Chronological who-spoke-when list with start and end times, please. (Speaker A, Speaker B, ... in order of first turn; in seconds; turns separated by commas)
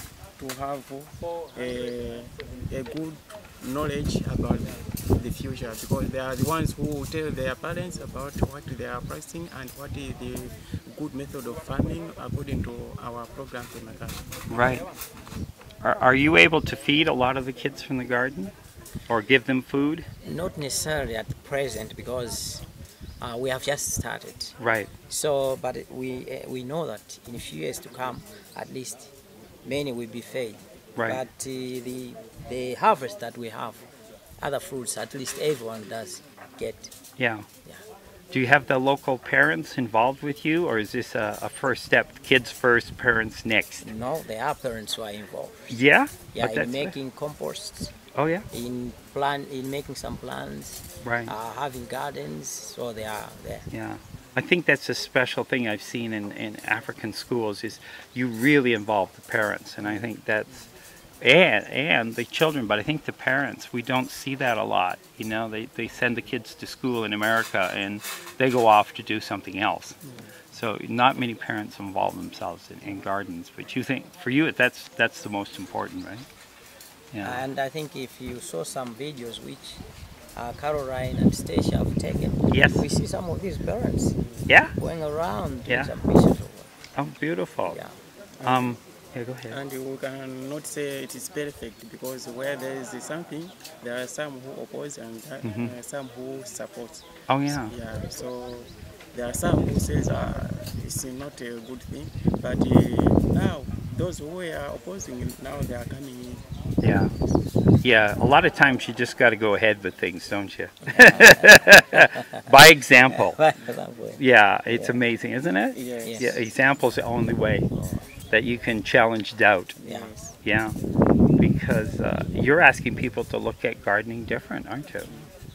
Speaker A: 0.4-14.2, Speaker B: 14.5-14.8, Speaker B: 15.8-18.5, Speaker B: 19.1-20.1, Speaker C: 20.2-22.6, Speaker C: 23.2-24.5, Speaker B: 24.6-24.9, Speaker C: 25.1-29.1, Speaker C: 29.6-33.8, Speaker C: 34.4-36.9, Speaker B: 37.2-37.4, Speaker B: 38.3-43.9, Speaker C: 43.8-45.8, Speaker B: 45.7-46.9, Speaker C: 46.3-47.9, Speaker B: 48.1-48.4, Speaker C: 48.5-53.7, Speaker B: 51.0-51.3, Speaker B: 53.7-60.7, Speaker B: 61.2-70.0, Speaker B: 70.5-76.2, Speaker B: 77.1-77.4, Speaker C: 77.2-79.8, Speaker C: 80.3-84.2, Speaker B: 82.5-82.8, Speaker B: 84.5-84.7, Speaker C: 84.8-86.7, Speaker B: 87.0-87.8, Speaker C: 87.7-87.9, Speaker A: 88.4-88.8, Speaker B: 88.4-89.6, Speaker A: 89.5-106.4, Speaker B: 95.4-95.7, Speaker B: 97.3-97.7, Speaker B: 106.8-107.1, Speaker B: 107.8-113.4, Speaker C: 110.9-112.2, Speaker C: 113.1-115.0, Speaker B: 114.2-117.7, Speaker A: 115.7-116.4, Speaker C: 116.0-116.4, Speaker C: 117.7-118.1, Speaker B: 118.3-119.7, Speaker A: 119.8-120.3, Speaker C: 119.8-120.1, Speaker B: 120.4-120.7, Speaker B: 121.4-125.1